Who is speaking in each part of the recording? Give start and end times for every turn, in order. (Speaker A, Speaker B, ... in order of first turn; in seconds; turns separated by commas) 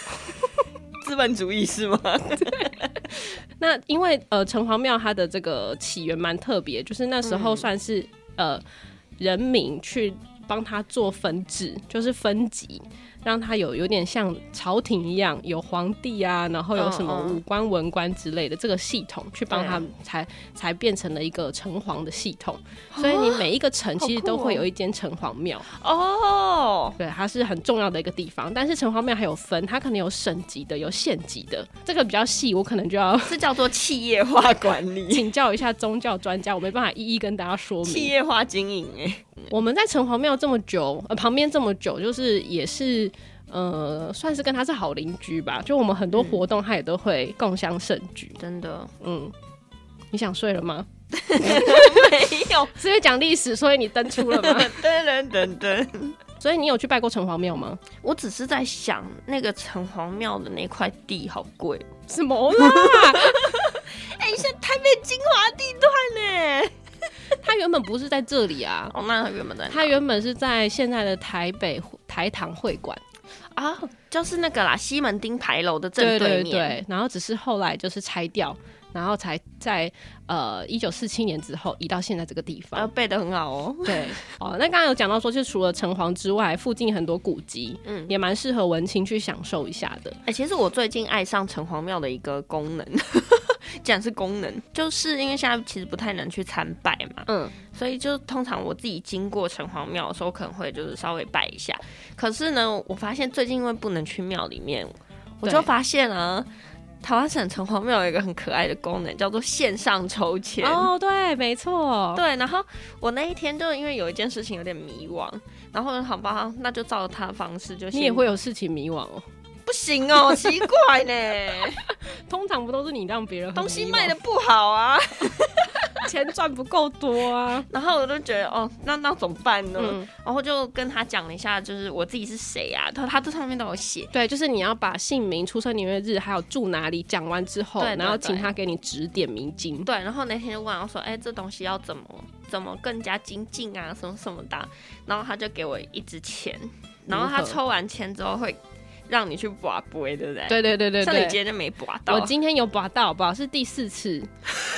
Speaker A: 1.0-3.0, Speaker B: 3.6-8.6, Speaker A: 7.2-7.7, Speaker B: 9.2-25.7, Speaker A: 16.8-17.4, Speaker A: 19.5-19.8, Speaker A: 22.9-23.5, Speaker A: 24.0-24.7, Speaker A: 25.7-27.0, Speaker B: 27.0-33.4, Speaker A: 33.3-35.3, Speaker B: 35.1-38.1, Speaker A: 37.8-39.5, Speaker B: 39.5-48.4, Speaker A: 46.2-46.4, Speaker A: 48.4-48.9, Speaker B: 49.0-49.3, Speaker B: 50.1-54.8, Speaker A: 51.1-52.7, Speaker A: 54.2-56.2, Speaker B: 56.4-57.8, Speaker A: 58.0-61.9, Speaker B: 62.1-63.7, Speaker A: 62.5-66.7, Speaker B: 67.4-68.9, Speaker A: 68.9-70.0, Speaker B: 69.7-73.0, Speaker A: 73.5-76.8, Speaker B: 76.0-82.9, Speaker A: 82.8-84.3, Speaker B: 83.9-90.2, Speaker A: 87.8-88.1, Speaker A: 90.3-106.5, Speaker B: 97.3-97.5, Speaker A: 107.0-110.9, Speaker B: 110.6-112.2, Speaker A: 112.1-118.3, Speaker B: 117.9-119.3, Speaker A: 119.7-121.9, Speaker B: 121.9-124.2, Speaker A: 123.5-126.1, Speaker B: 126.0-127.7, Speaker A: 127.7-134.1, Speaker B: 129.8-130.1, Speaker B: 134.1-139.9, Speaker A: 137.8-138.5, Speaker A: 139.8-152.3, Speaker B: 147.1-147.6, Speaker B: 150.5-151.4, Speaker B: 152.1-154.3